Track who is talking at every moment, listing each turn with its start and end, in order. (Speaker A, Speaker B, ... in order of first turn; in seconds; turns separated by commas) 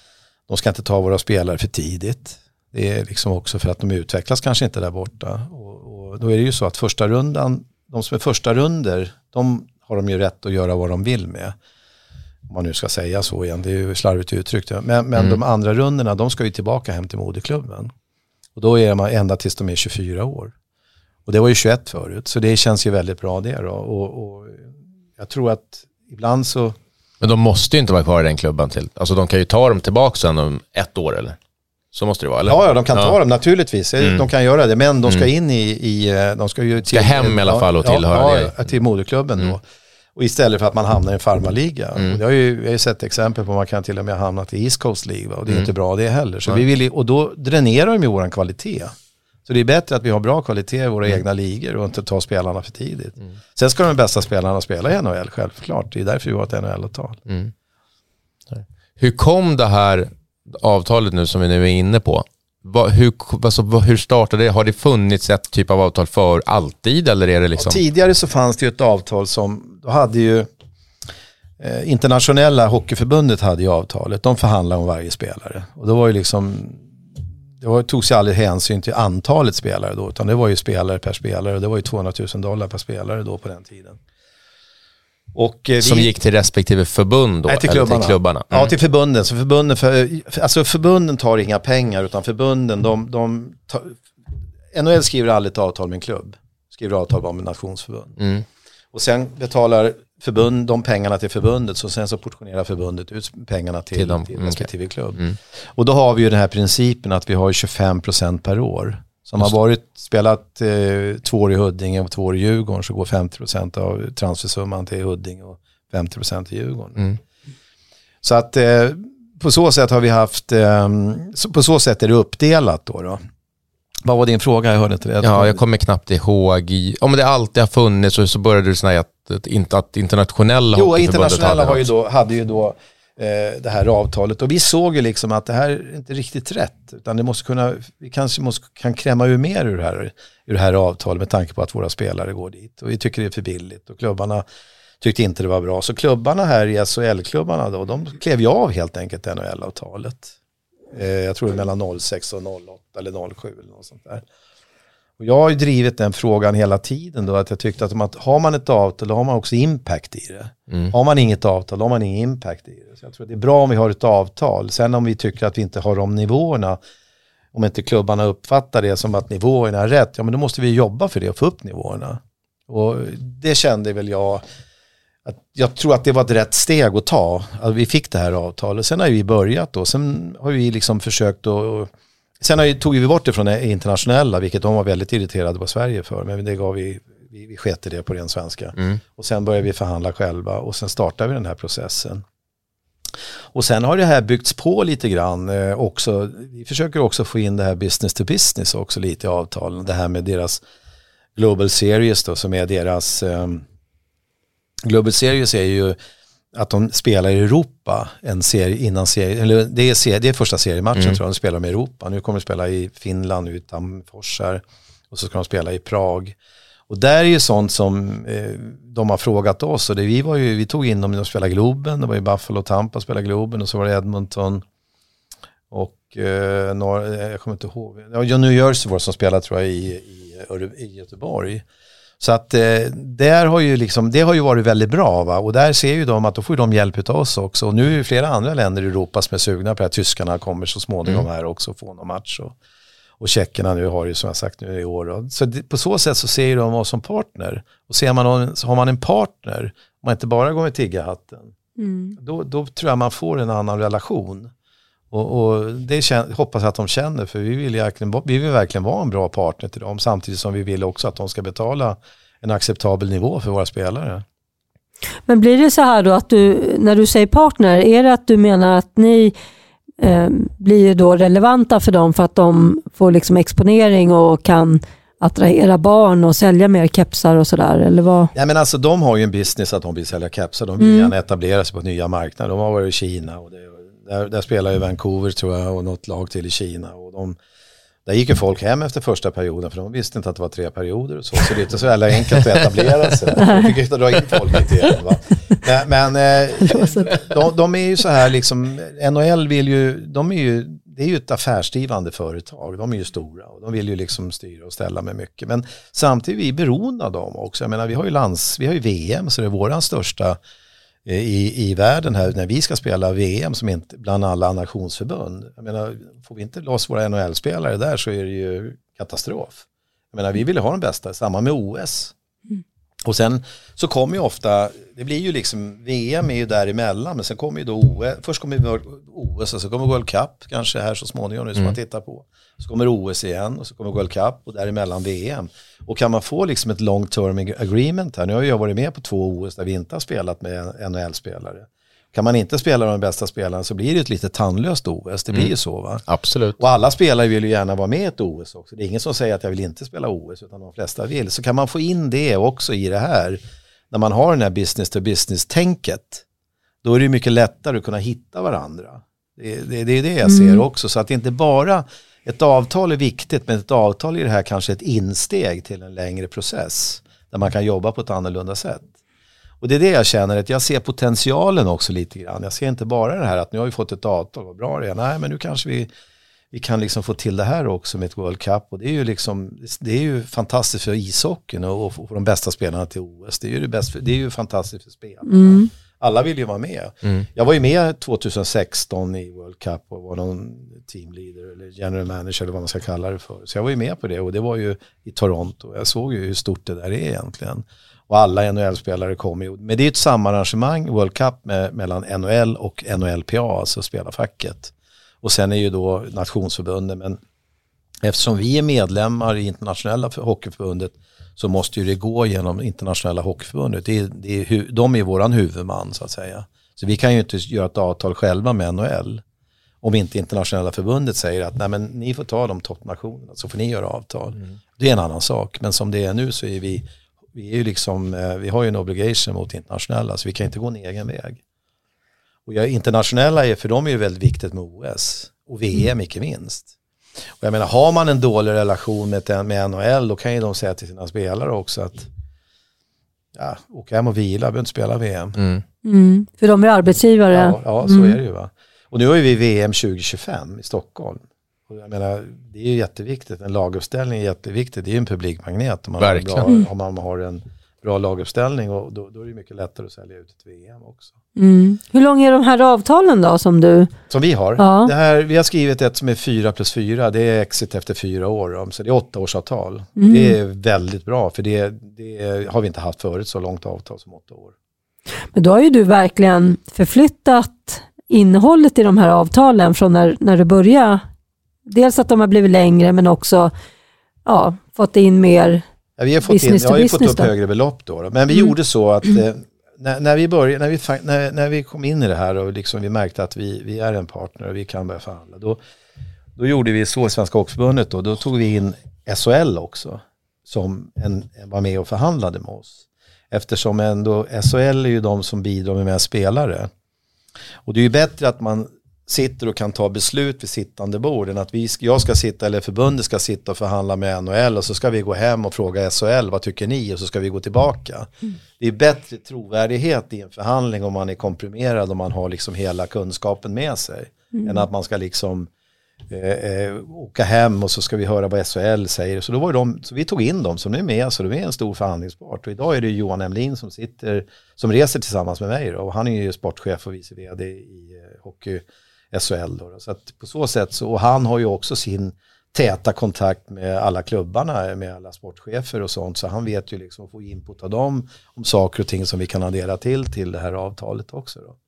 Speaker A: 0.5-11.6, Speaker A: 12.5-17.9, Speaker A: 18.6-20.5, Speaker A: 21.3-26.8, Speaker B: 27.2-31.4, Speaker B: 31.9-33.1, Speaker A: 32.5-39.6, Speaker B: 36.9-38.5, Speaker A: 40.2-48.9, Speaker A: 49.5-57.2, Speaker B: 58.5-67.8, Speaker A: 67.6-70.5, Speaker A: 71.6-76.9, Speaker A: 77.6-84.0, Speaker A: 85.3-86.1, Speaker B: 85.8-88.7, Speaker A: 87.5-94.0, Speaker A: 94.7-98.2, Speaker B: 98.2-98.5, Speaker A: 98.9-105.2, Speaker B: 104.0-105.4, Speaker A: 105.8-117.0, Speaker A: 118.2-123.2, Speaker A: 124.0-125.6, Speaker B: 125.2-131.9, Speaker A: 130.7-144.4, Speaker A: 145.0-150.3, Speaker A: 150.9-154.2, Speaker A: 155.2-166.8, Speaker A: 167.5-174.4, Speaker A: 175.2-192.2, Speaker A: 193.5-200.6, Speaker A: 201.4-203.7, Speaker A: 204.8-206.0, Speaker A: 206.5-216.4, Speaker A: 216.9-224.6, Speaker A: 225.7-231.6, Speaker A: 232.2-242.6, Speaker A: 243.2-251.5, Speaker C: 251.8-252.2, Speaker A: 252.2-254.5, Speaker A: 255.1-264.2, Speaker C: 265.3-269.3, Speaker C: 270.0-278.3, Speaker A: 278.3-287.4, Speaker C: 280.8-281.1, Speaker A: 288.1-310.4, Speaker C: 293.4-293.7, Speaker C: 296.7-297.1, Speaker A: 311.1-322.1, Speaker A: 323.1-346.0, Speaker B: 346.1-346.6, Speaker A: 346.6-353.4, Speaker A: 353.9-356.2, Speaker A: 356.8-368.9, Speaker C: 360.2-360.6, Speaker A: 369.6-375.9, Speaker A: 376.5-407.2, Speaker C: 385.3-385.7, Speaker A: 408.0-419.2, Speaker A: 419.8-431.4, Speaker A: 432.5-436.7, Speaker A: 437.4-442.1, Speaker A: 443.3-445.4, Speaker B: 445.4-445.6, Speaker C: 445.8-448.2, Speaker A: 447.3-461.2, Speaker B: 456.0-456.5, Speaker C: 461.4-463.9, Speaker A: 464.1-474.5, Speaker C: 464.6-464.9, Speaker C: 470.0-470.4, Speaker C: 475.3-481.0, Speaker C: 481.7-483.5, Speaker C: 484.3-485.6, Speaker A: 486.0-495.6, Speaker C: 486.3-487.3, Speaker A: 496.4-506.7, Speaker A: 507.7-525.5, Speaker A: 526.1-551.6